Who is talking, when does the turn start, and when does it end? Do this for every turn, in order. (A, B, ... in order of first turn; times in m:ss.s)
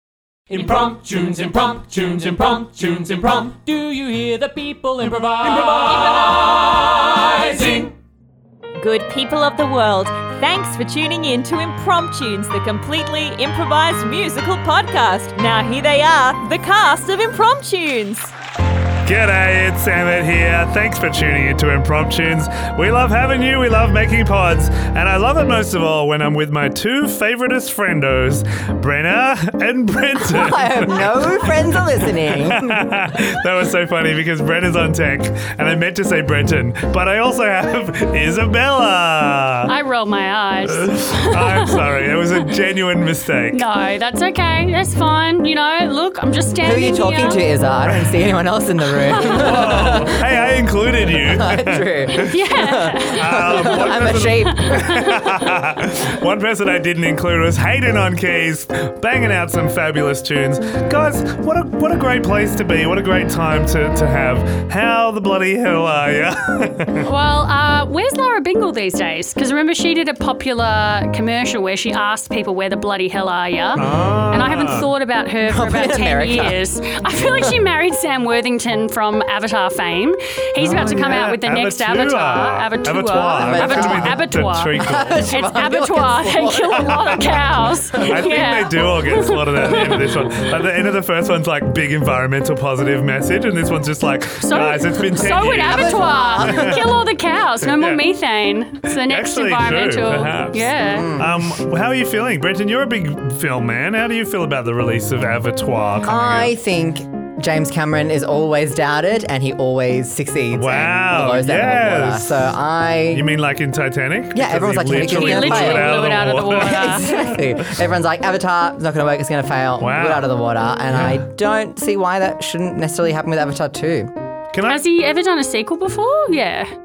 0:00.5-0:07.9 A
0:05.6-0:06.8 B
0:08.8-0:18.3 B
0:19.0-0:39.7 C
0:30.3-0:32.9 D
0:39.7-0:41.8 E
0:40.7-0:43.6 C
0:43.5-0:47.4 E
0:46.6-0:50.2 D
0:47.9-0:48.2 C
0:49.2-0:49.6 E
0:49.2-0:52.4 C
0:51.1-0:55.0 D
0:52.1-0:53.9 E
0:53.1-1:07.1 C
0:54.5-0:55.2 E
1:07.0-1:24.7 E
1:13.8-1:14.9 C
1:15.4-1:16.6 D
1:20.6-1:25.3 C
1:23.4-1:24.2 D
1:24.8-1:27.4 D
1:25.3-1:30.5 E
1:27.9-1:28.3 D
1:27.9-1:36.9 C
1:34.4-1:41.1 E
1:35.2-1:36.9 D
1:37.6-1:38.0 C
1:38.9-1:46.5 C
1:40.9-1:41.4 D
1:46.0-1:53.3 D
1:50.5-1:52.4 C
1:53.1-1:57.7 C
1:54.3-2:04.1 D
1:55.0-1:57.0 E
1:59.8-2:00.3 C
2:00.9-2:01.2 C
2:04.5-2:04.8 C
2:04.7-2:06.7 E